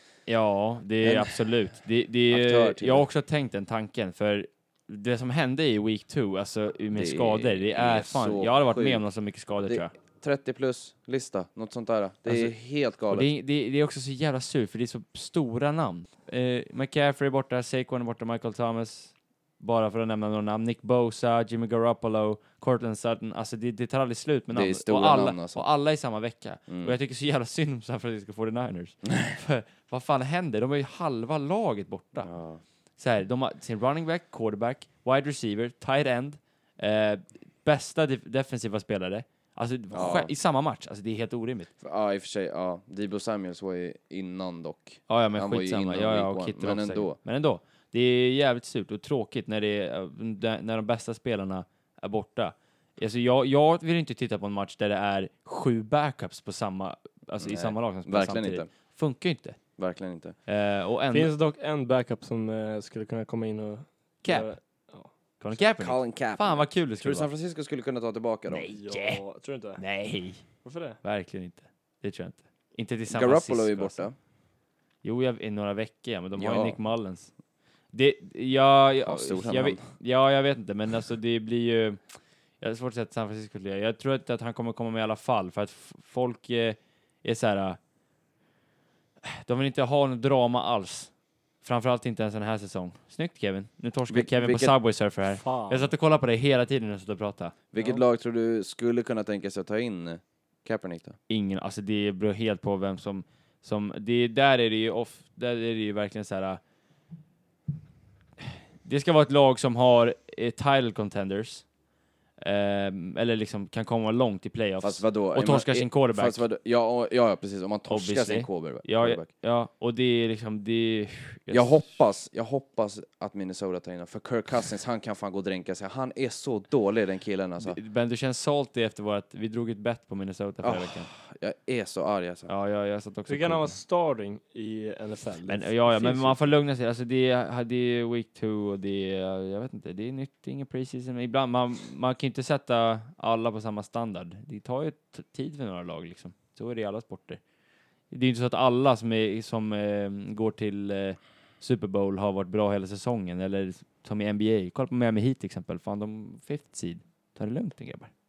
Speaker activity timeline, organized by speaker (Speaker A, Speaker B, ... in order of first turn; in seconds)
Speaker A: 0.2-9.9, 12.2-12.5, 13.1-32.3, 33.0-41.7, 45.1-59.6, 60.5-61.3, 64.2-64.5, 65.4-67.3, 68.5-69.2, 69.8-70.4, 71.0-74.1, 75.0-77.3, 77.9-82.0, 82.6-87.8, 89.2-97.5, 101.3-106.6, 108.8-111.7, 112.4-116.4, 117.9-121.8, 127.6-131.1, 132.5-133.8, 135.4-147.4, 148.1-158.1
Speaker B: 1.0-1.4, 2.3-3.0, 6.9-9.0, 9.7-13.3, 24.5-25.6, 26.7-26.9, 32.2-32.6, 39.9-40.3, 41.8-47.2, 57.4-58.7, 59.8-60.4, 65.5-68.7, 73.1-74.1, 76.3-76.8, 79.0-79.9, 94.1-94.7, 97.7-101.2, 114.8-119.3, 121.5-127.8, 130.6-132.5
Speaker C: 61.1-65.1, 68.7-69.8, 70.6-71.0, 95.3-95.9, 133.3-136.4